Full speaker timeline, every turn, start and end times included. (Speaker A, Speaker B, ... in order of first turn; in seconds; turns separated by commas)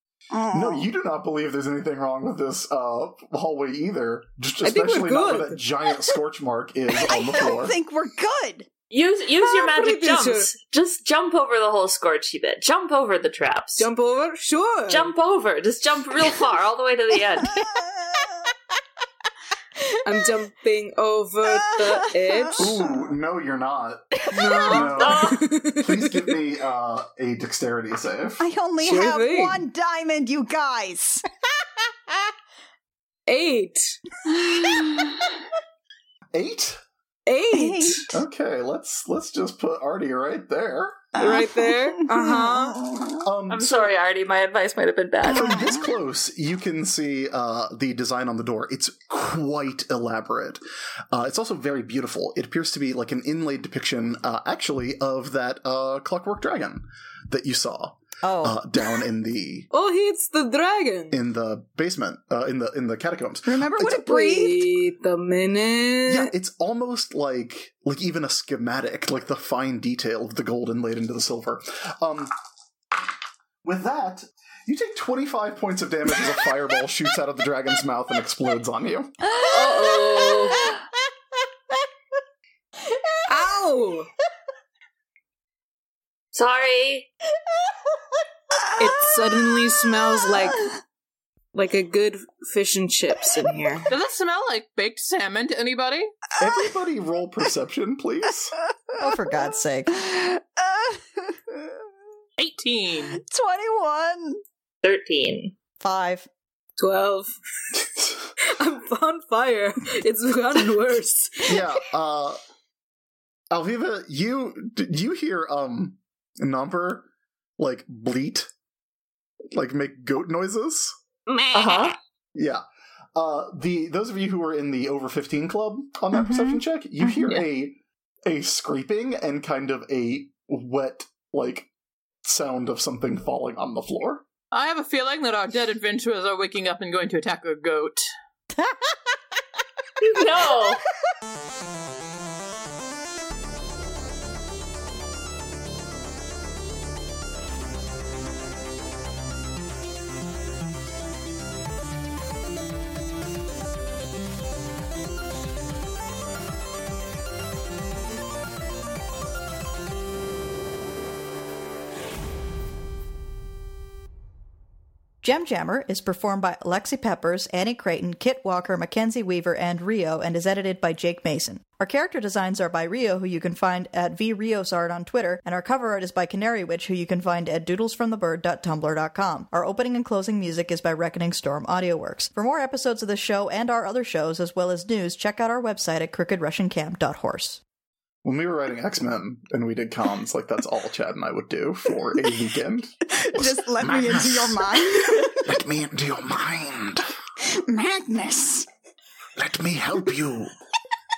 Speaker A: 0.3-0.9, Speaker B: 0.5-7.8, Speaker C: 4.6-5.6, Speaker A: 7.0-8.7, Speaker D: 8.9-13.9, Speaker C: 9.4-10.5, Speaker C: 13.8-15.1, Speaker D: 14.9-17.7, Speaker A: 17.7-18.3, Speaker C: 20.1-22.7, Speaker A: 21.4-23.0, Speaker B: 22.6-28.4, Speaker C: 24.4-26.3, Speaker D: 24.9-25.4, Speaker A: 28.4-31.2, Speaker C: 28.8-29.6, Speaker C: 33.3-34.0, Speaker A: 34.2-35.4, Speaker B: 36.3-36.8, Speaker C: 37.3-38.1, Speaker A: 37.5-38.1, Speaker B: 38.1-41.1, Speaker C: 41.2-42.9, Speaker A: 41.2-43.2, Speaker B: 43.2-43.9, Speaker D: 43.5-45.5, Speaker A: 45.3-45.9, Speaker B: 45.3-59.7, Speaker E: 58.2-58.6, Speaker C: 59.7-61.2, Speaker B: 61.1-63.9, Speaker A: 63.5-64.7, Speaker C: 63.9-66.3, Speaker B: 66.1-72.3, Speaker B: 73.6-79.1, Speaker C: 79.4-80.7, Speaker D: 79.5-80.6, Speaker C: 83.3-84.1, Speaker D: 86.3-87.1, Speaker C: 88.8-90.7, Speaker C: 91.5-93.9, Speaker F: 93.9-96.1, Speaker B: 96.4-98.5, Speaker E: 99.0-100.0, Speaker A: 100.0-101.8, Speaker F: 102.4-103.2, Speaker A: 103.1-104.4, Speaker D: 104.8-105.5, Speaker E: 105.8-106.3, Speaker C: 106.8-107.3, Speaker B: 108.0-108.3, Speaker C: 108.4-111.5, Speaker B: 111.5-112.4, Speaker B: 113.5-118.5, Speaker B: 119.5-121.0, Speaker D: 121.5-122.0, Speaker B: 122.3-122.6, Speaker B: 123.2-131.7, Speaker A: 126.1-127.3, Speaker B: 132.2-134.2, Speaker F: 134.5-138.1, Speaker E: 138.6-139.0, Speaker D: 140.0-140.8, Speaker E: 165.2-187.6, Speaker B: 188.2-197.1, Speaker A: 193.2-195.5, Speaker A: 197.6-198.7, Speaker B: 199.4-200.5